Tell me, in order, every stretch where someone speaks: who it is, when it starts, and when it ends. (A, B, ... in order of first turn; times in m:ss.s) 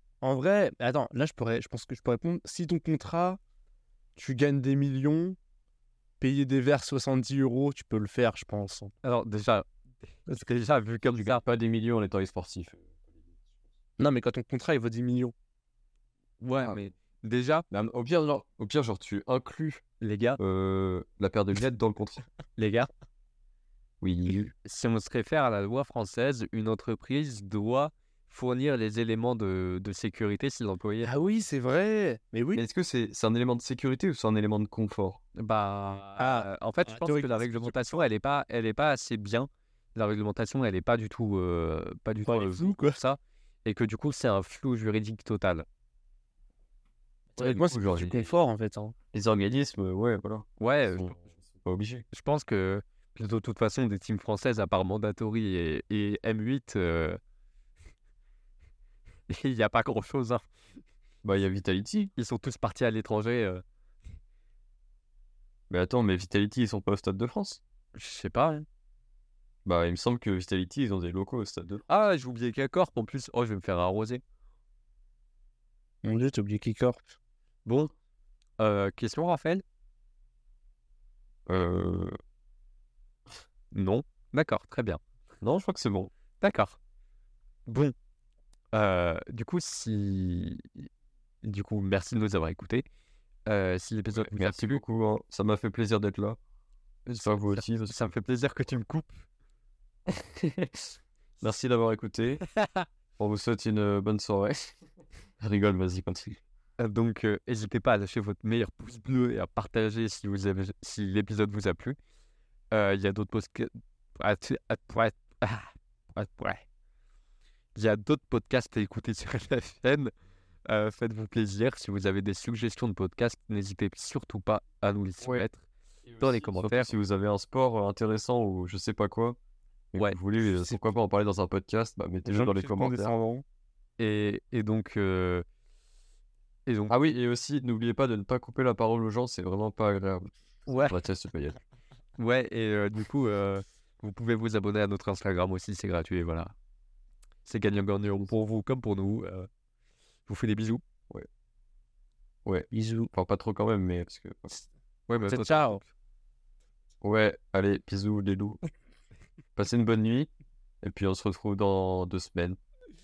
0:00.2-0:03.4 A
0:04.2-0:05.4 A
0:06.2-0:08.9 A
0:09.0-0:11.4 B
0:11.2-0:12.8 C
0:14.0-0:15.3 A
0:16.4-0:17.6 B
0:17.7-0:19.8 C
0:20.0-0:20.4 B
0:20.4-0:22.2 C
0:22.6-0:22.9 B
0:24.0-0:24.5 C
0:24.6-0:31.1 B
0:31.0-0:32.6 A
0:32.5-0:35.2 C
0:35.3-0:45.6 B
0:36.2-0:38.0 A
0:42.2-0:43.0 A
0:47.3-0:48.9 A
0:47.4-0:48.3 C
0:49.1-0:52.0 C
0:50.6-0:51.3 B
0:52.1-0:57.2 B
0:59.3-1:00.4 B
1:01.2-1:02.1 C
1:02.2-1:03.6 B
1:05.7-1:07.6 C
1:07.9-1:08.6 B
1:09.6-1:11.8 C
1:11.9-1:14.2 B
1:16.0-1:17.1 A
1:17.6-1:17.9 B
1:18.6-1:19.6 B
1:21.5-1:22.1 C
1:23.7-1:25.0 B
1:25.4-1:26.1 C
1:26.4-1:26.8 B
1:27.7-1:27.9 B
1:28.7-1:30.9 B
1:31.4-1:32.8 B
1:33.5-1:34.8 B
1:34.2-1:36.4 C
1:37.0-1:39.2 B
1:37.2-1:38.1 C
1:40.1-1:40.8 C
1:41.4-1:42.4 C
1:42.5-1:42.8 B
1:43.2-1:44.7 C
1:45.4-1:46.4 C
1:46.8-1:52.0 B
1:52.7-1:56.6 B
1:57.7-2:00.1 B
2:00.7-2:05.7 B
2:06.0-2:09.4 C
2:06.2-2:06.9 B
2:09.9-2:13.1 C
2:12.2-2:13.4 A
2:14.0-2:15.4 B
2:16.7-2:16.9 B
2:16.9-2:20.3 C
2:20.7-2:21.0 B
2:20.8-2:21.6 C
2:22.2-2:26.5 B
2:27.4-2:29.5 B
2:30.3-2:30.8 B
2:32.4-2:34.5 C
2:32.7-2:33.1 A
2:35.1-2:35.9 B
2:35.3-2:35.8 A
2:37.0-2:38.6 C
2:39.6-2:40.3 C
2:40.8-2:42.6 C